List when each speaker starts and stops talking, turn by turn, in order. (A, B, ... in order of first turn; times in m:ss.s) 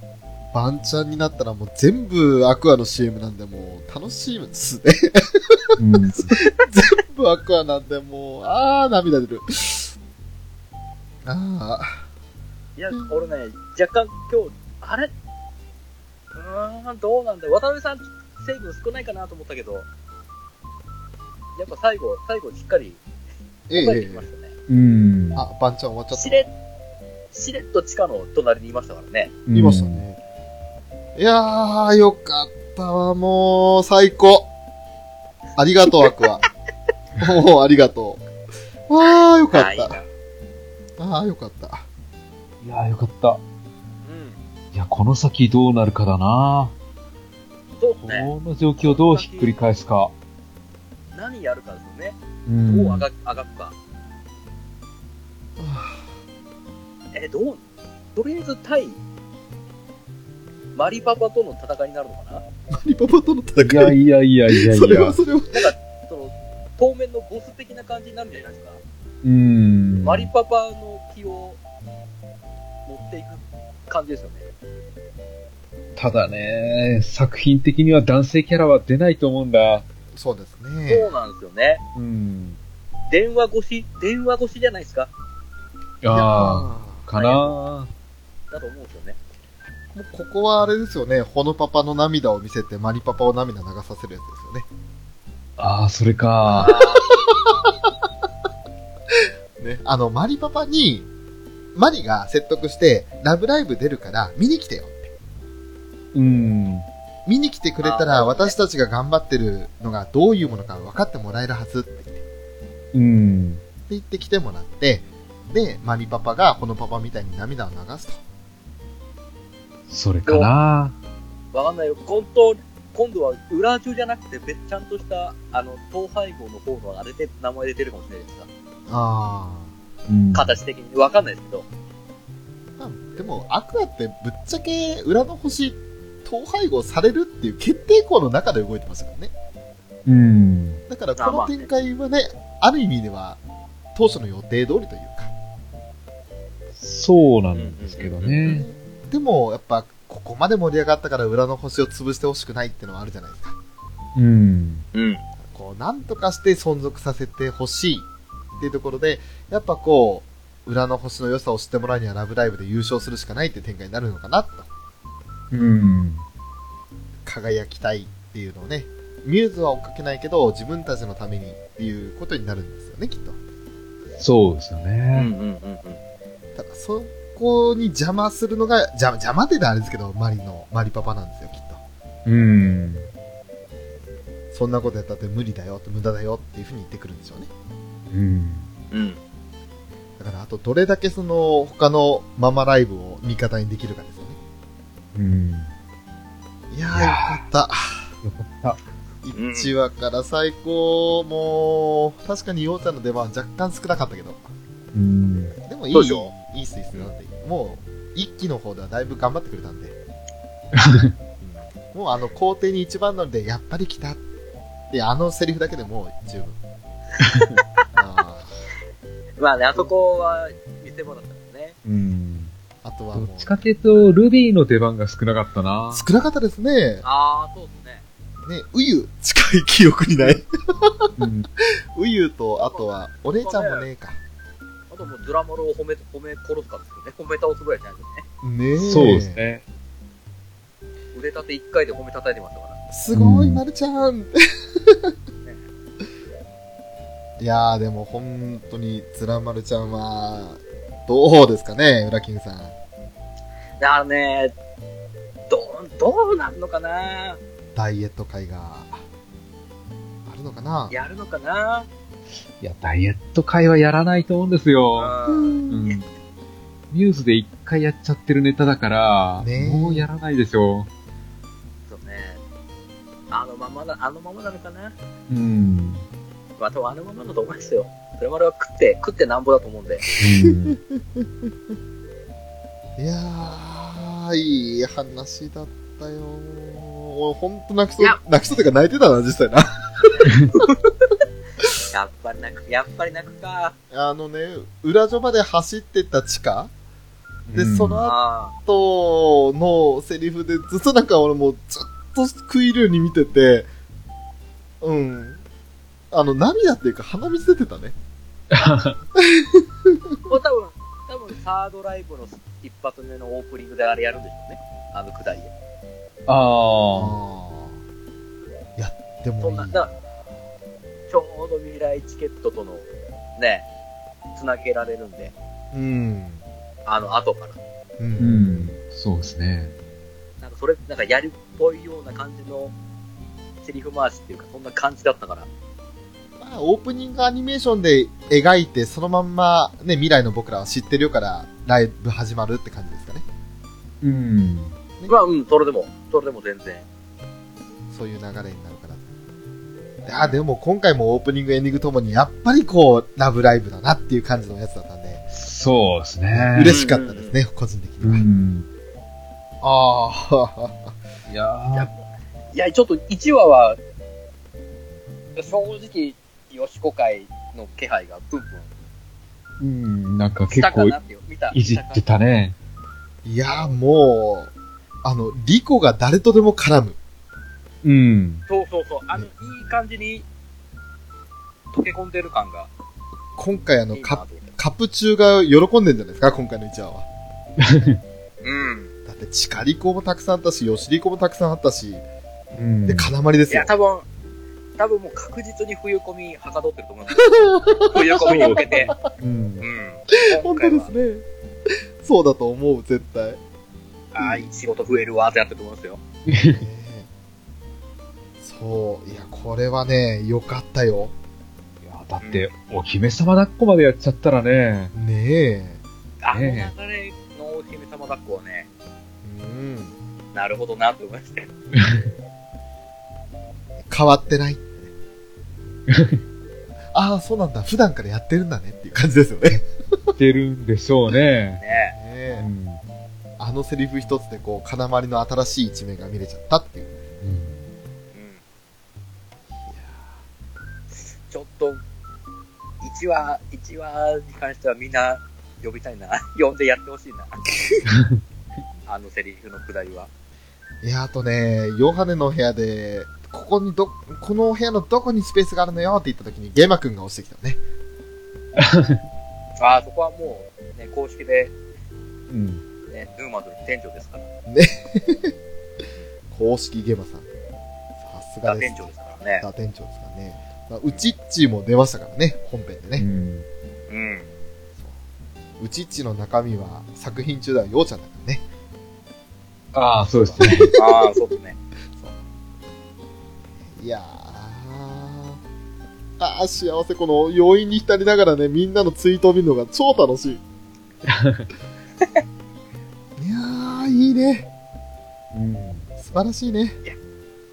0:00.5-0:05.7 A
0:05.8-0:06.4 B
0:06.3-0:09.9 A
0:11.2-0:12.0 A
0:12.8-0:15.1 C
0:16.3-0:19.9 C
0:21.6-0:23.0 C
0:23.7-0:24.3 A
0:23.7-0:24.5 C
0:24.7-0:25.4 B
0:25.3-0:26.5 A
0:26.1-0:26.5 C
0:27.3-0:29.3 C
0:29.5-0:30.0 B
0:29.5-0:30.2 A
0:31.2-0:34.5 A
0:35.6-0:36.4 A
0:37.2-0:38.2 A
0:38.9-0:40.0 A
0:39.5-0:40.1 C
0:41.0-0:41.8 A
0:42.6-0:43.4 B
0:44.0-0:44.4 C
0:44.7-0:46.7 B
0:47.8-0:49.5 C
0:48.0-0:50.1 B
0:51.1-0:53.8 C
0:52.4-0:53.1 B
0:55.6-0:56.1 A
0:57.1-0:57.6 C
0:58.1-0:59.0 C
1:00.7-1:02.4 C
1:02.7-1:04.0 A
1:03.6-1:05.2 B
1:04.5-1:05.7 A
1:05.5-1:08.8 C
1:09.2-1:10.3 B
1:10.0-1:11.6 C
1:12.9-1:14.5 C
1:16.0-1:19.8 B
1:16.1-1:16.4 A
1:20.1-1:21.1 A
1:20.9-1:21.8 C
1:21.9-1:22.6 B
1:23.1-1:25.1 C
1:26.0-1:27.9 B
1:26.1-1:27.1 A
1:27.1-1:27.6 C
1:28.5-1:29.2 C
1:29.9-1:34.7 A
1:35.6-1:36.8 B
1:36.4-1:37.3 C
1:37.3-1:37.7 A
1:39.1-1:41.1 A
1:41.7-1:45.1 A
1:46.1-1:46.8 B
1:47.2-1:52.2 A
1:47.8-1:48.6 C
1:52.9-1:53.6 B
1:53.9-1:58.2 A
1:59.9-2:01.0 B
2:00.2-2:00.5 C
2:01.5-2:08.5 C
2:08.9-2:09.7 A
2:10.1-2:10.6 B
2:10.3-2:11.7 C
2:12.8-2:19.3 A
2:20.0-2:20.8 B
2:20.9-2:23.4 A
2:21.2-2:21.7 C
2:23.9-2:25.3 A
2:26.8-2:28.6 B
2:27.5-2:28.4 C
2:28.4-2:33.6 A
2:34.1-2:34.8 B
2:34.9-2:35.2 C
2:35.4-2:44.7 A
2:45.5-2:46.2 B
2:47.2-2:53.4 A
2:54.2-2:55.3 B
2:55.1-2:56.0 C
2:56.6-3:01.8 A
3:02.2-3:03.1 B
3:04.5-3:07.5 A
3:08.1-3:08.7 B
3:08.9-3:09.2 C
3:10.2-3:14.4 A
3:15.1-3:15.7 B
3:16.7-3:18.1 A
3:16.9-3:17.4 B
3:18.2-3:18.8 B
3:19.2-3:24.5 A
3:19.3-3:19.7 C
3:24.9-3:25.6 B
3:25.6-3:30.0 A
3:25.9-3:26.3 C
3:30.7-3:31.1 B
3:31.4-3:34.2 A
3:34.9-3:36.6 A
3:37.2-3:37.6 B
3:37.9-3:38.6 A
3:39.4-3:41.8 C
3:41.8-3:42.5 B
3:42.8-3:43.7 A
3:43.1-3:46.1 B
3:45.9-3:47.0 A
3:47.0-3:48.0 C
3:48.4-3:51.1 A
3:51.2-3:51.5 B
3:51.9-3:54.2 A
3:52.6-3:53.9 C
3:54.9-3:58.2 C
3:58.4-3:59.4 A
3:58.8-3:59.6 B
4:01.1-4:02.8 C
4:02.9-4:05.1 A
4:03.1-4:03.6 B
4:07.4-4:12.7 A
4:13.8-4:14.5 C
4:15.5-4:17.4 C
4:17.7-4:19.0 A
4:20.2-4:20.9 A
4:20.9-4:21.9 C
4:22.6-4:25.1 B
4:25.0-4:26.0 C
4:25.3-4:25.8 A
4:25.7-4:26.0 B
4:26.9-4:30.9 B
4:29.4-4:30.1 A
4:31.9-4:32.4 C
4:33.3-4:35.0 C
4:35.3-4:36.0 B
4:36.6-4:40.0 C
4:40.2-4:40.8 B
4:40.2-4:41.5 A
4:43.0-4:50.1 A
4:50.2-4:50.8 C
4:51.9-4:53.7 C
4:53.9-4:56.7 A
4:57.5-4:58.0 B
4:57.5-5:03.7 A
4:58.0-4:58.5 C
5:04.8-5:05.4 A
5:06.1-5:08.0 A
5:08.5-5:09.0 B
5:09.2-5:10.1 A
5:10.2-5:15.5 C
5:16.3-5:17.2 B
5:16.9-5:17.8 A
5:18.8-5:20.0 A
5:19.4-5:19.9 C
5:21.1-5:23.7 C
5:24.3-5:25.3 C
5:25.7-5:26.4 A
5:26.8-5:27.6 C
5:28.0-5:28.7 A
5:28.2-5:29.7 B
5:30.4-5:32.8 C
5:33.6-5:35.5 C
5:36.4-5:43.2 A
5:44.0-5:44.8 B
5:45.0-5:46.9 C
5:47.9-5:49.0 A
5:50.0-5:55.2 A
5:50.1-5:50.4 C
5:55.3-5:56.8 B
5:56.3-5:58.2 A
5:56.6-5:57.4 C
5:58.0-5:58.7 B
5:59.6-6:01.0 A
6:01.3-6:01.9 B
6:02.5-6:03.8 C
6:05.4-6:08.7 C
6:09.6-6:11.0 B
6:10.5-6:12.0 C
6:11.5-6:12.5 B
6:13.2-6:14.5 A
6:13.4-6:13.8 C
6:15.0-6:17.0 A
6:17.8-6:18.4 B
6:18.5-6:20.3 C
6:21.7-6:22.7 C
6:23.4-6:27.1 A
6:23.9-6:24.5 C
6:27.6-6:28.0 B
6:28.4-6:28.9 C
6:29.0-6:32.0 A
6:32.5-6:33.1 B
6:32.8-6:33.7 A
6:33.5-6:34.1 C
6:34.8-6:38.9 C
6:37.2-6:39.0 A
6:38.2-6:39.6 B
6:39.6-6:40.9 C
6:40.1-6:43.4 A
6:44.1-6:46.0 C
6:44.2-6:44.4 A
6:46.3-6:46.6 B
6:46.5-6:47.1 A
6:48.4-6:51.1 A
6:51.8-6:54.9 B
6:52.2-6:52.5 C
6:54.9-6:55.8 A
6:56.2-6:58.7 C
6:56.3-6:56.7 B
6:59.2-6:59.9 A
7:00.3-7:01.5 C
7:01.7-7:02.1 B
7:03.8-7:04.9 A
7:05.9-7:06.2 B
7:06.9-7:10.1 A
7:10.2-7:11.6 B
7:11.6-7:12.0 C
7:11.9-7:12.4 A
7:12.4-7:12.8 B
7:13.4-7:17.0 A
7:17.2-7:17.5 B
7:18.1-7:18.4 C
7:19.6-7:20.1 A
7:20.9-7:21.8 C
7:22.8-7:27.4 C
7:27.9-7:28.2 B
7:28.9-7:30.1 C
7:30.8-7:37.6 A
7:38.6-7:39.0 B
7:39.6-7:41.5 C
7:42.3-7:42.6 B
7:42.9-7:44.3 C
7:44.5-7:45.4 A
7:46.3-7:47.3 A
7:48.0-7:53.0 A
7:48.4-7:49.4 C
7:53.0-7:53.5 B
7:53.9-7:54.3 C
7:55.6-7:58.4 A
7:59.7-8:00.7 B
8:00.1-8:00.8 A
8:00.4-8:01.6 C
8:03.6-8:05.4 A
8:06.2-8:10.4 A
8:11.0-8:11.5 B
8:13.2-8:14.5 A
8:15.3-8:15.9 B
8:16.0-8:16.8 A